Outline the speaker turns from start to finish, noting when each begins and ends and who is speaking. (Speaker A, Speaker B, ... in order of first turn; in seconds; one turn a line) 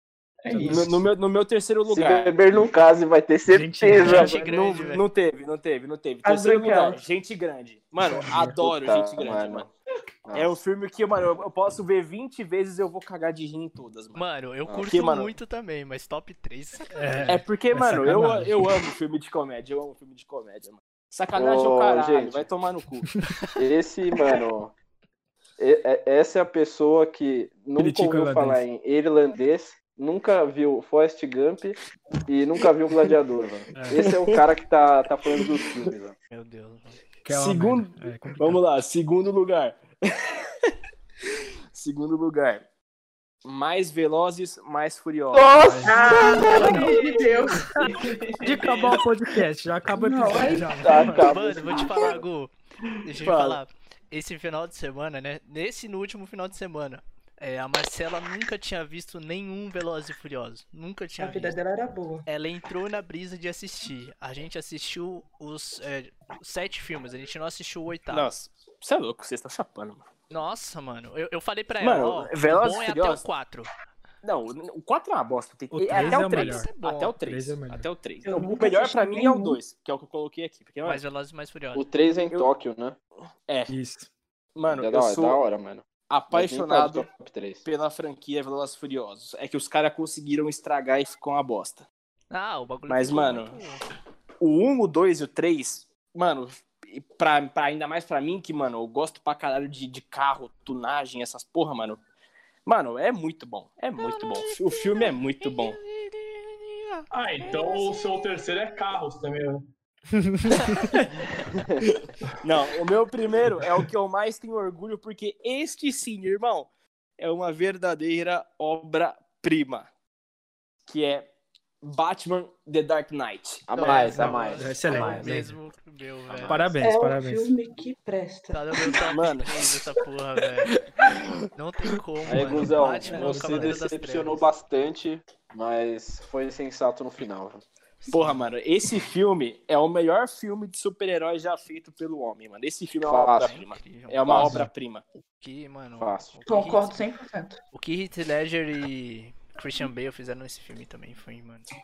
Speaker A: 0.5-0.9
Speaker B: 0.6-2.3
Speaker C: 1.9-4.4
Speaker D: 3.5-4.4
Speaker E: 3.9-5.0
Speaker B: 4.1-9.7
Speaker F: 6.2-7.0
Speaker D: 8.0-8.6
Speaker C: 8.6-9.7
Speaker C: 10.2-10.6
Speaker B: 10.3-14.2
Speaker E: 14.1-17.4
Speaker C: 14.7-14.9
Speaker B: 14.9-15.3
Speaker D: 16.9-18.7
Speaker B: 17.3-23.1
Speaker C: 21.3-22.5
Speaker C: 23.6-24.7
Speaker C: 25.6-36.1
Speaker D: 27.8-28.6
Speaker D: 33.7-34.0
Speaker B: 33.9-34.4
Speaker B: 35.4-35.8
Speaker E: 36.3-37.0
Speaker D: 37.2-38.6
Speaker B: 37.3-40.7
Speaker B: 41.7-42.6
Speaker B: 43.4-46.4
Speaker F: 45.3-47.9
Speaker D: 45.6-47.0
Speaker E: 46.1-47.5
Speaker A: 48.0-48.8
Speaker D: 48.4-51.4
Speaker F: 49.9-50.8
Speaker C: 50.8-52.2
Speaker E: 51.2-61.5
Speaker B: 53.2-53.6
Speaker F: 61.2-62.2
Speaker E: 62.2-68.3
Speaker B: 68.1-70.0
Speaker E: 70.3-73.7
Speaker B: 71.8-73.2
Speaker B: 74.2-81.0
Speaker D: 75.7-76.7
Speaker E: 75.9-77.2
Speaker D: 77.2-77.9
Speaker F: 78.2-79.6
Speaker E: 80.8-81.9
Speaker C: 81.7-83.0
Speaker B: 83.5-83.7
Speaker D: 83.7-84.1
Speaker B: 84.5-85.4
Speaker C: 84.7-87.6
Speaker B: 86.1-87.1
Speaker B: 87.6-91.8
Speaker E: 92.3-93.8
Speaker B: 92.9-93.6
Speaker B: 94.4-102.0
Speaker B: 102.7-105.8
Speaker E: 104.0-107.1
Speaker A: 107.1-109.7
Speaker D: 110.1-110.5
Speaker E: 110.5-111.6
Speaker B: 111.8-119.9
Speaker B: 120.9-121.3
Speaker B: 121.8-123.7
Speaker C: 123.7-125.2
Speaker E: 123.7-126.8
Speaker D: 124.1-125.5
Speaker C: 126.3-126.6
Speaker D: 126.5-127.5
Speaker F: 126.8-128.6
Speaker E: 128.5-130.7
Speaker B: 129.0-129.8
Speaker B: 130.6-131.4
Speaker E: 131.5-134.5
Speaker C: 132.2-137.6
Speaker D: 133.1-133.8
Speaker E: 138.0-138.4
Speaker B: 138.1-145.0
Speaker C: 143.0-143.5
Speaker E: 143.4-144.4
Speaker C: 144.3-144.7
Speaker D: 144.3-144.7
Speaker E: 145.4-147.0
Speaker C: 146.0-146.4
Speaker F: 146.5-147.6
Speaker E: 147.7-151.7